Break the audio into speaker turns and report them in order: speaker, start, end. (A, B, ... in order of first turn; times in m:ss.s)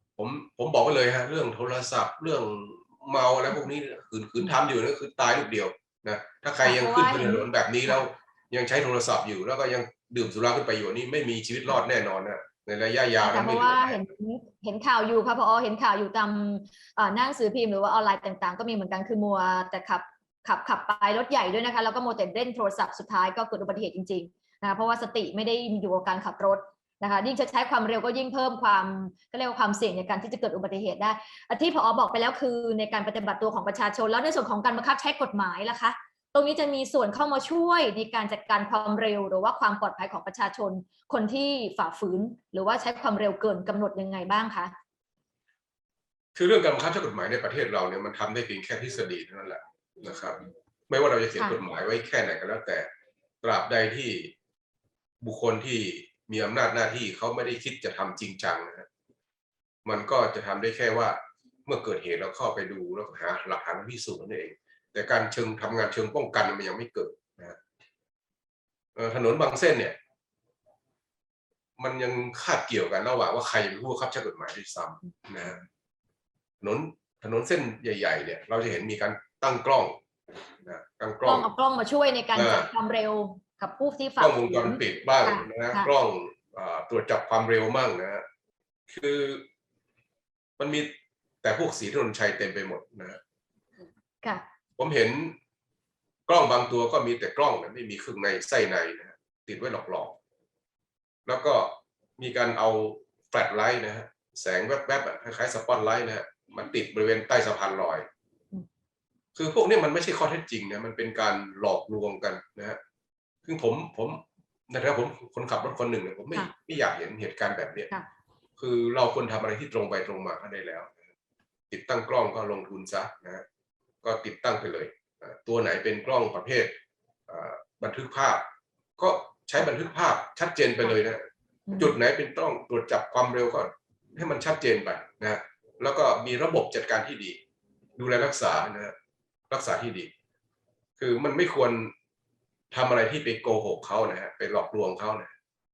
0:00.2-0:14.0 A
0:06.6-0:08.0 B
0:13.2-0:44.7 B
0:46.4-0:52.9 A
0:53.4-0:54.3 A
0:55.2-0:58.9 A
0:59.8-1:07.6 A
1:09.0-1:10.0 A
1:11.8-1:15.6 A
1:16.6-1:20.0 A
1:20.6-1:21.5 A
1:21.2-1:25.9 B
1:22.3-1:22.7 A
1:24.2-1:28.2 A
1:28.9-1:29.4 A
1:30.6-1:30.9 A
1:31.4-1:33.2 A
1:34.8-1:35.4 A
1:36.3-1:40.2 A
1:41.3-1:48.1 A
1:49.4-1:52.8 A
1:53.4-1:57.9 A
1:58.6-2:00.9 A
2:01.7-2:03.4 A
2:04.0-2:08.5 A
2:09.0-2:11.2 A
2:11.7-2:12.0 B
2:11.8-2:17.4 A
2:18.0-2:18.9 A
2:19.5-2:20.1 A
2:21.0-2:21.9 A
2:22.7-2:25.3 A